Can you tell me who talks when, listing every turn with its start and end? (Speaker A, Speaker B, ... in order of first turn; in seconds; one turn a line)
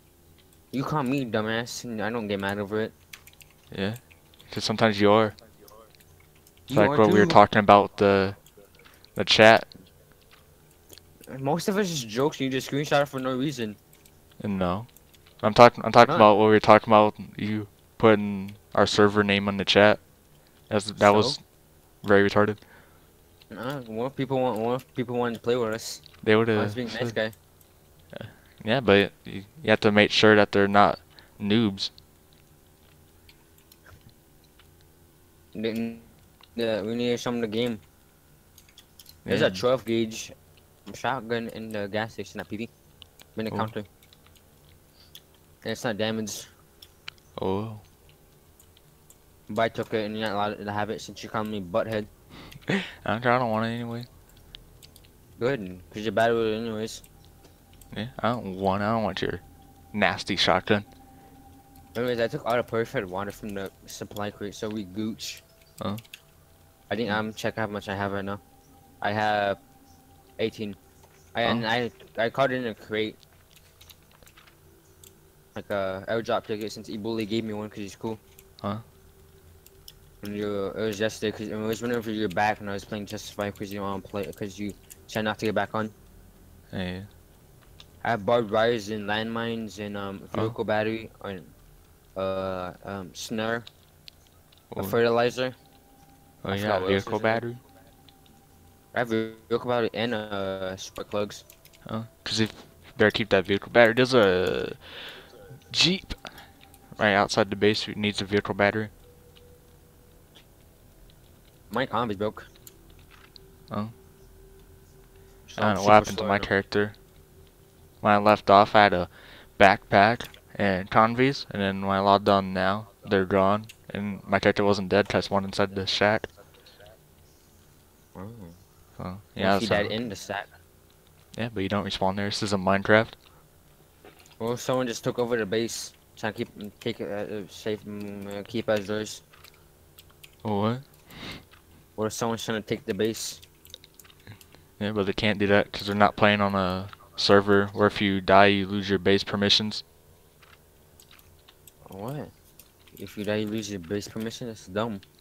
Speaker A: 0.7-2.9
Speaker B: 3.7-5.4
Speaker A: 6.7-7.4
Speaker B: 6.7-8.4
Speaker B: 9.2-9.7
Speaker A: 11.3-13.8
Speaker B: 14.4-14.9
Speaker B: 15.4-20.0
Speaker A: 16.0-16.3
Speaker B: 20.7-21.4
Speaker A: 21.0-21.4
Speaker B: 22.0-22.6
Speaker A: 23.5-27.3
Speaker B: 26.2-27.2
Speaker B: 28.1-31.9
Speaker A: 35.5-37.8
Speaker B: 39.3-39.6
Speaker A: 39.3-40.3
Speaker A: 40.9-42.7
Speaker A: 43.4-43.9
Speaker A: 45.6-46.5
Speaker B: 47.4-47.8
Speaker A: 49.5-52.1
Speaker B: 52.7-54.1
Speaker A: 55.4-57.0
Speaker B: 57.9-60.9
Speaker A: 62.0-65.4
Speaker A: 66.9-68.4
Speaker A: 69.0-69.6
Speaker A: 70.4-70.8
Speaker A: 71.3-73.2
Speaker A: 75.5-78.2
Speaker A: 80.2-85.9
Speaker B: 86.7-87.1
Speaker A: 88.0-91.5
Speaker A: 92.2-93.7
Speaker B: 94.7-95.0
Speaker A: 94.8-95.6
Speaker B: 96.4-97.6
Speaker A: 96.5-97.4
Speaker A: 98.9-101.4
Speaker B: 101.8-106.2
Speaker B: 106.9-108.9
Speaker A: 111.7-112.5
Speaker A: 115.5-116.5
Speaker B: 115.6-117.0
Speaker B: 118.0-126.3
Speaker A: 128.2-128.6
Speaker B: 129.0-129.9
Speaker A: 129.4-130.5
Speaker B: 131.3-133.2
Speaker A: 134.4-139.2
Speaker B: 140.4-141.4
Speaker A: 142.0-143.4
Speaker B: 144.8-149.8
Speaker A: 151.9-152.3
Speaker A: 152.9-155.0